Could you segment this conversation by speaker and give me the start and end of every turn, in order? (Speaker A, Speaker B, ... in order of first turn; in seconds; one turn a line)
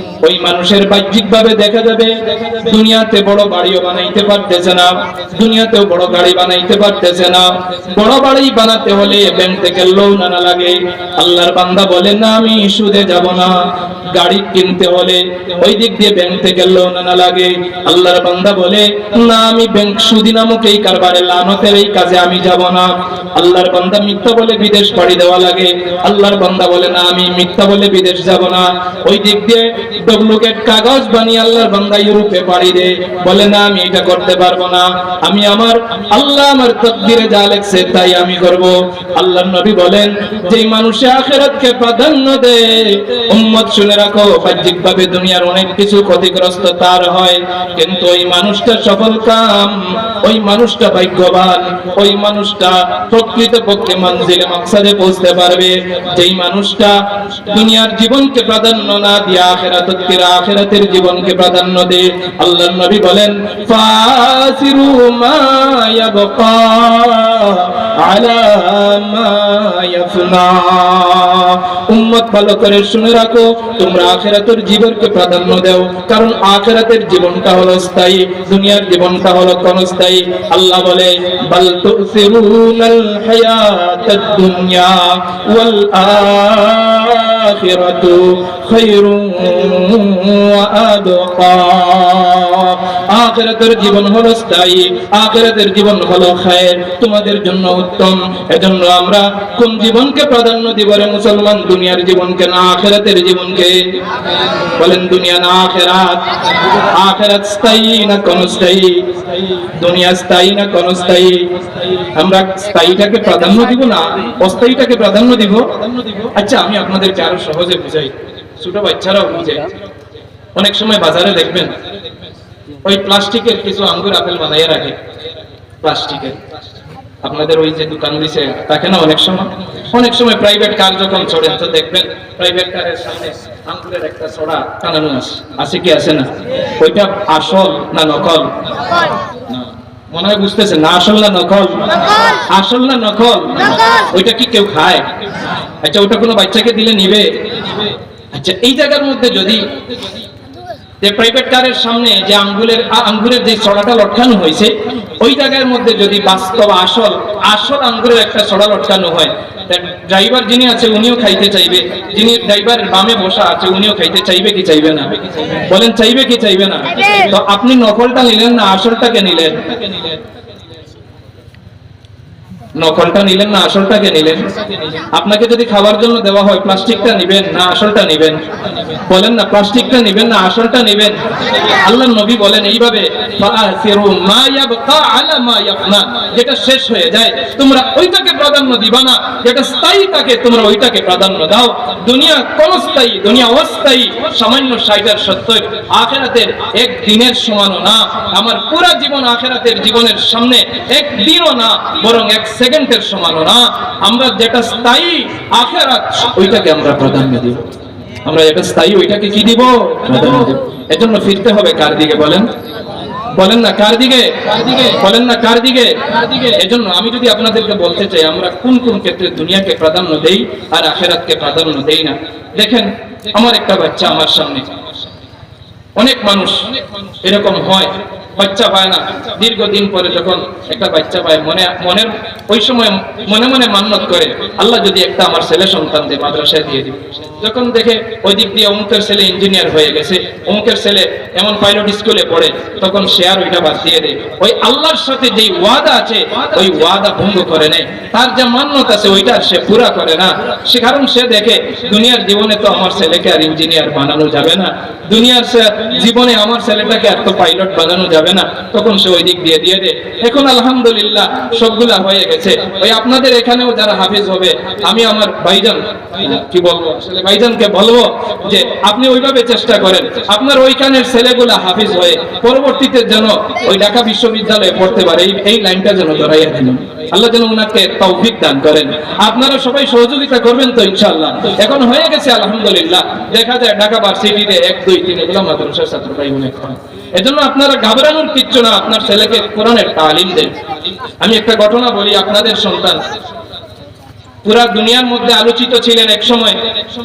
Speaker A: 0.2-103.8
Speaker A: 104.8-106.2
Speaker A: 106.9-109.1
Speaker A: 109.7-111.5
Speaker A: 112.1-119.7
Speaker A: 120.5-121.8
Speaker A: 122.8-125.0
Speaker A: 125.8-126.4
Speaker A: 127.2-138.5
Speaker A: 139.5-145.1
Speaker A: 145.8-147.3
Speaker A: 148.3-149.8
Speaker A: 151.0-169.7
Speaker A: 172.8-174.5
Speaker A: 175.1-178.4
Speaker A: 179.1-207.7
Speaker A: 208.2-212.5
Speaker A: 213.3-224.7
Speaker A: 226.0-226.7
Speaker A: 227.2-290.6
Speaker A: 291.2-293.1
Speaker A: 294.4-296.6